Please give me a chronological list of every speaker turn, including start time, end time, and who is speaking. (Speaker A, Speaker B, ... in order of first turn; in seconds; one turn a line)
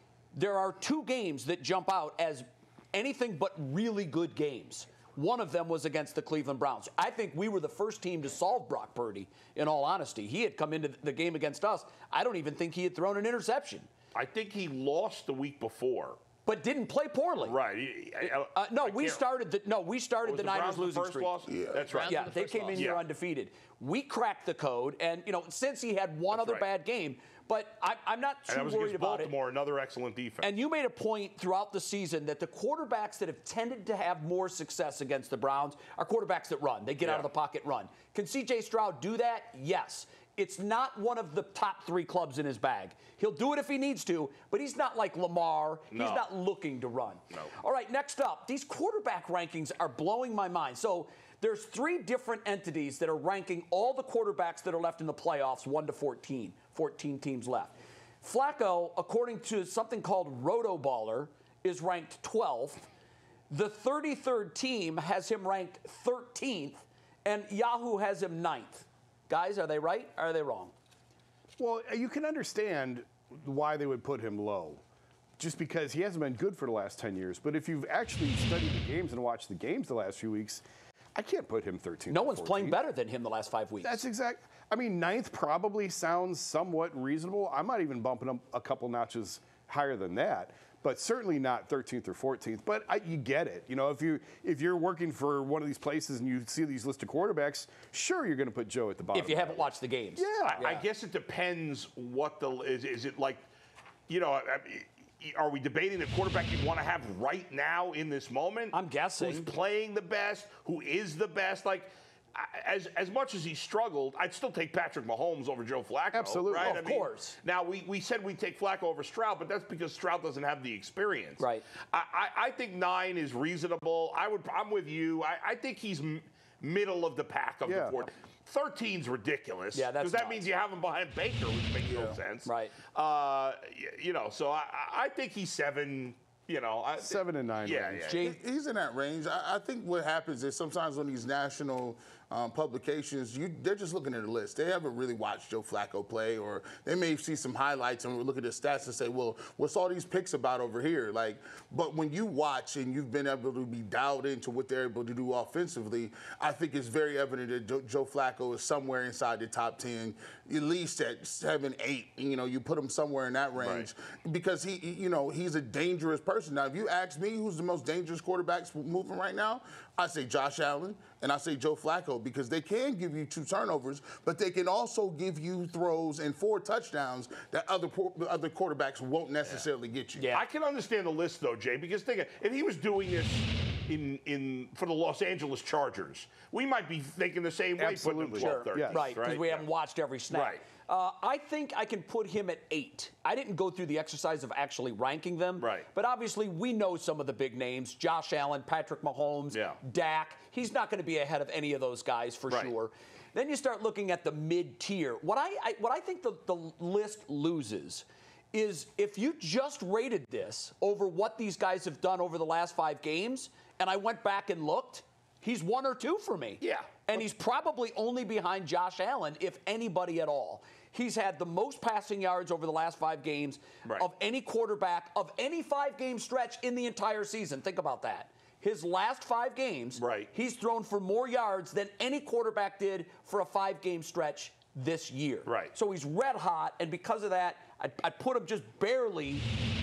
Speaker A: 0.3-13.9
Speaker B: 14.1-16.2
Speaker A: 16.4-17.6
Speaker B: 17.4-19.2
Speaker A: 18.2-29.3
Speaker B: 20.2-23.0
Speaker C: 21.4-22.1
Speaker B: 26.3-26.6
Speaker B: 28.5-30.5
Speaker A: 30.4-62.9
Speaker B: 37.0-37.3
Speaker B: 45.9-46.3
Speaker A: 63.5-70.7
Speaker D: 71.6-74.8
Speaker D: 75.4-80.6
Speaker D: 81.1-82.8
Speaker A: 82.1-84.0
Speaker D: 83.8-100.7
Speaker A: 99.1-100.8
Speaker B: 100.4-103.4
Speaker B: 104.1-138.3
Speaker A: 108.7-109.5
Speaker D: 116.1-116.8
Speaker A: 116.6-117.4
Speaker A: 121.4-121.7
Speaker D: 127.7-128.0
Speaker A: 129.7-130.5
Speaker C: 131.8-132.2
Speaker A: 132.4-132.8
Speaker D: 137.0-138.1
Speaker A: 138.1-138.4
Speaker C: 138.2-180.3
Speaker B: 163.6-163.9
Speaker A: 180.2-180.4
Speaker B: 180.3-189.7
Speaker D: 187.8-189.1
Speaker A: 188.4-239.5
Speaker B: 190.3-190.6
Speaker B: 195.6-195.9
Speaker B: 199.5-199.8
Speaker B: 216.6-217.2
Speaker B: 230.0-230.3
Speaker B: 235.4-235.7